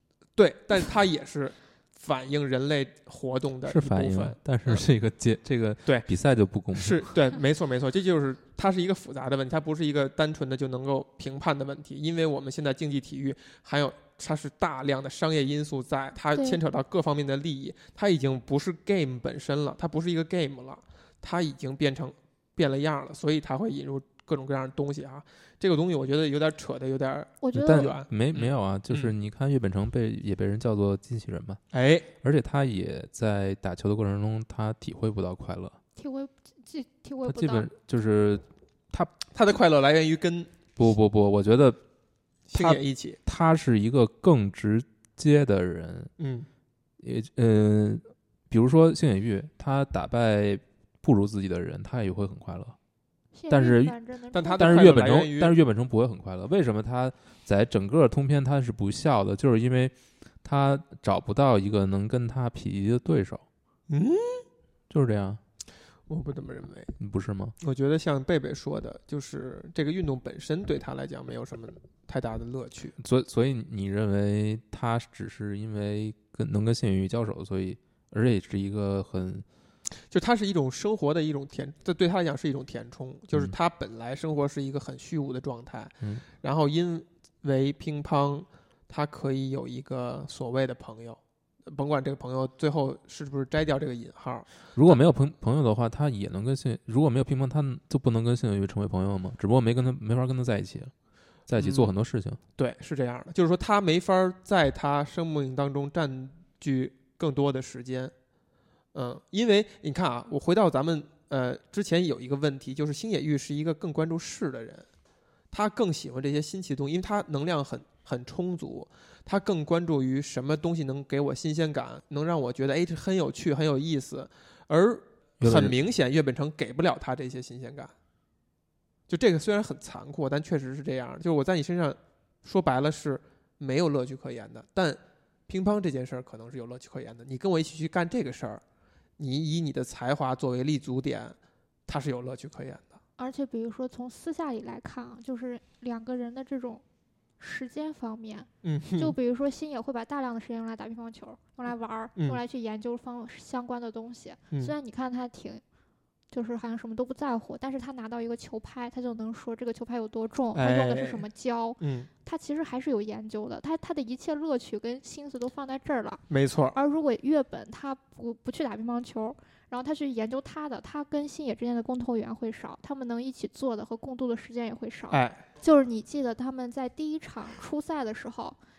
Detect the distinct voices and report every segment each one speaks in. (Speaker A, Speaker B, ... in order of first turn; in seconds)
Speaker A: 0.3-4.8, 5.8-6.1, 6.7-29.1, 31.7-32.1, 39.3-40.7, 42.5-43.2, 46.2-46.5, 54.3-55.5, 63.9-64.5, 66.1-66.9, 67.6-72.9, 80.1-95.0, 101.6-101.9, 102.5-108.1, 108.9-114.9, 115.5-127.9, 129.1-138.6, 139.2-141.3, 141.9-143.0, 148.6-149.1, 152.2-152.4, 160.5-161.2, 161.8-162.1, 166.3-166.8, 175.1-175.4
Speaker B: 3.6-7.1, 27.5-31.6, 32.2-35.8, 37.2-39.1, 40.8-41.8, 42.5-46.1, 47.0-52.8, 53.5-54.0, 54.5-63.4, 64.9-65.4, 67.0-67.5, 73.0-79.5, 94.7-100.9, 101.5-102.4, 125.4-125.7
Speaker C: 16.3-16.6, 27.4-27.9, 36.0-37.7, 53.3-54.8, 143.2-146.8, 147.4-155.6, 156.3-178.6